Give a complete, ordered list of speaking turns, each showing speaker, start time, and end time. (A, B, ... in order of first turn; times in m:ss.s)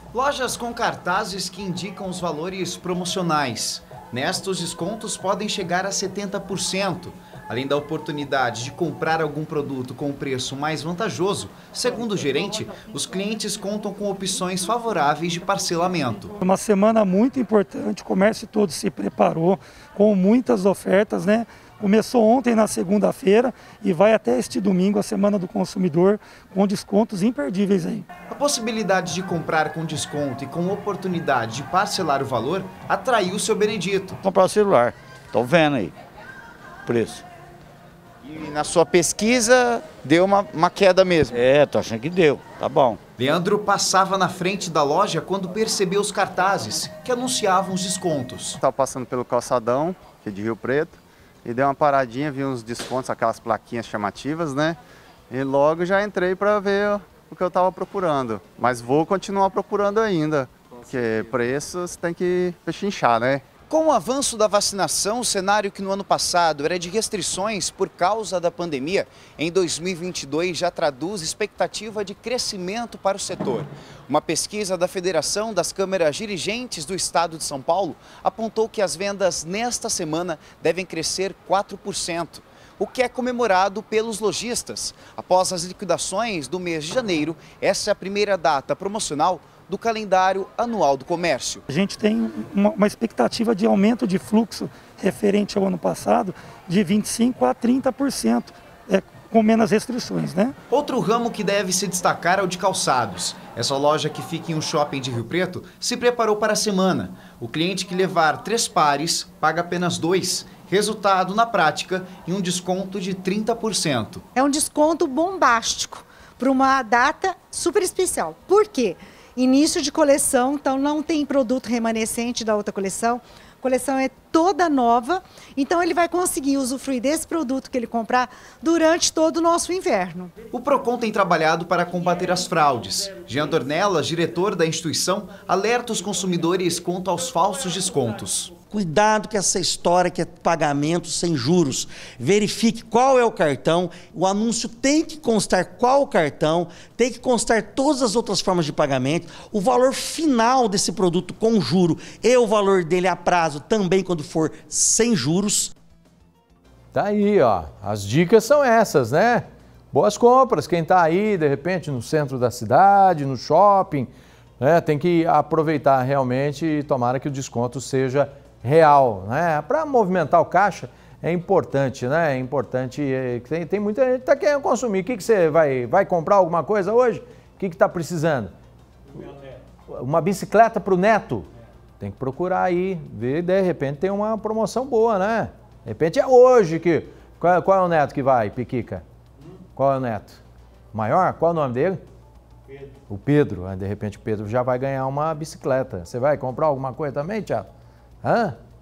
0:00.1-0:16.3 A
0:16.4-0:28.1 B
0:28.3-0:34.2 A
0:34.2-0:36.0 C
0:36.8-0:37.2 C
0:38.2-0:41.4 A
0:41.3-0:43.0 C
0:43.2-0:48.6 A
0:48.6-0:54.8 D
0:55.3-1:03.4 D
1:03.7-1:31.6 A
1:31.7-1:40.5 B
1:40.7-1:54.2 A
1:54.4-2:10.3 E
2:10.5-2:18.5 A
2:18.7-2:35.7 F
2:36.9-2:58.5 G
2:59.9-3:01.5 G
3:02.0-3:09.0 G
3:09.8-3:10.4 G
3:10.9-3:12.0 G
3:13.1-3:17.7 G
3:18.2-3:18.6 G